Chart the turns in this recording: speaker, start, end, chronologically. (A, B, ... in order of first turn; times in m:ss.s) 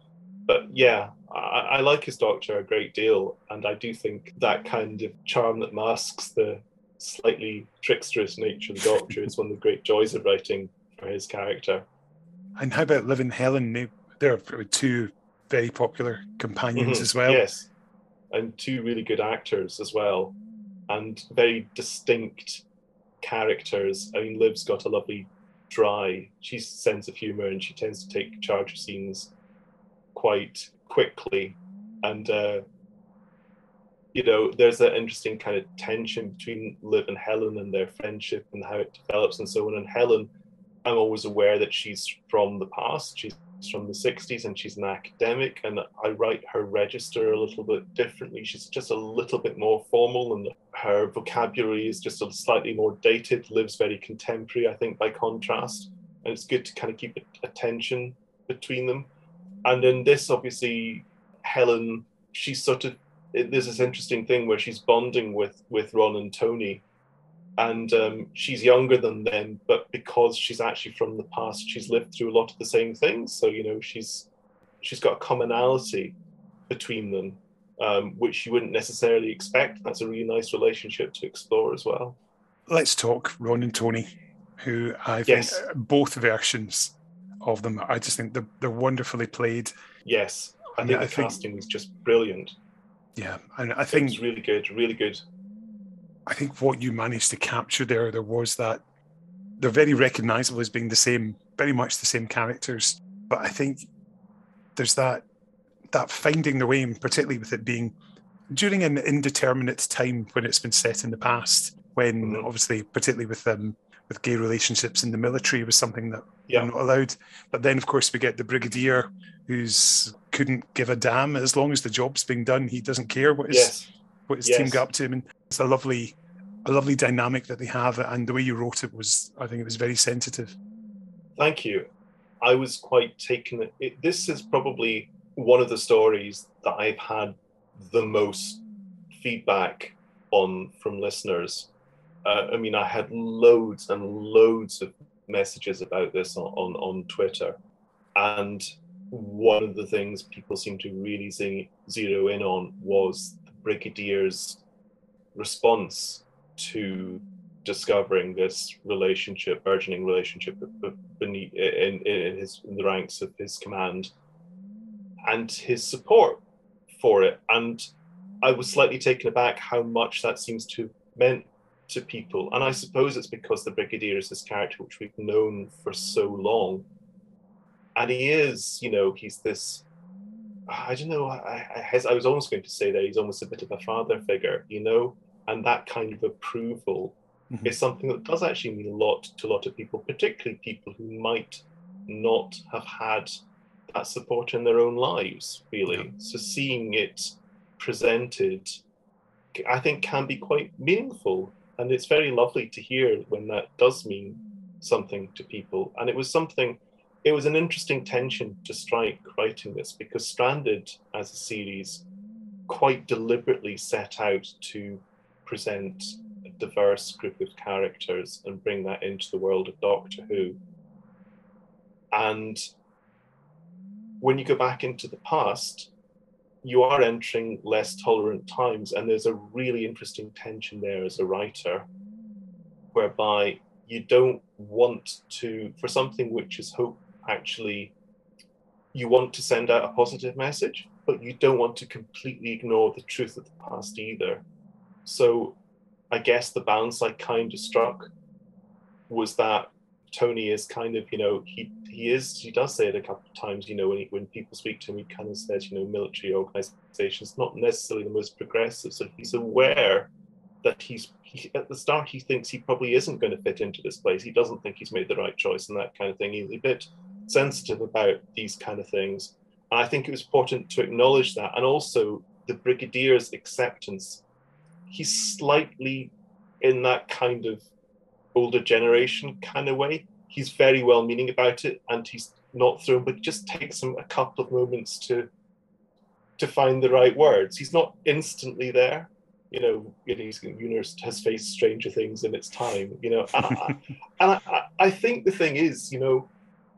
0:00.5-0:11.8 A
0:12.6-0:17.4 B
0:16.7-0:17.7 A
0:18.3-0:20.3 A
0:20.9-0:22.6 A
0:23.2-0:29.3 A
0:30.1-0:32.6 A
0:34.1-0:40.3 A
0:40.8-0:59.1 A
0:59.6-1:06.8 A
1:07.6-1:14.3 A
1:14.8-1:16.1 A
1:16.7-1:22.2 A
1:22.7-1:29.7 B
1:25.2-1:25.6 A
1:30.0-1:32.5 A
1:30.8-1:31.4 B
1:33.2-1:34.2 B
1:33.9-1:35.2 A
1:36.2-1:38.8 B
1:39.6-1:43.9 B
1:44.8-1:45.2 B
1:45.9-1:47.9 B
1:48.5-2:03.8 B
1:52.2-1:52.5 A
2:03.5-2:03.9 A
2:04.3-2:10.6 B
2:04.4-2:04.8 A
2:11.4-2:11.8 A
2:12.4-2:18.6 A
2:19.2-2:21.7 A
2:22.2-2:27.6 A
2:28.1-2:34.6 A
2:35.3-2:44.1 A
2:45.2-2:46.4 A
2:46.9-2:47.9 A
2:48.4-2:56.8 A
2:57.9-2:59.8 A
3:00.7-3:13.3 A
3:07.5-3:07.8 B
3:13.9-3:18.8 A
3:19.5-3:32.0 A
3:32.7-3:40.6 A
3:42.1-3:42.6 A
3:44.2-3:45.9 A
3:46.6-3:51.9 A
3:52.9-3:57.9 A
3:58.9-4:04.4 A
4:05.0-4:05.6 A
4:06.1-4:08.1 A
4:09.1-4:20.1 A
4:20.6-4:34.2 A
4:34.9-4:37.6 A
4:38.3-4:45.3 A
4:46.4-4:56.3 A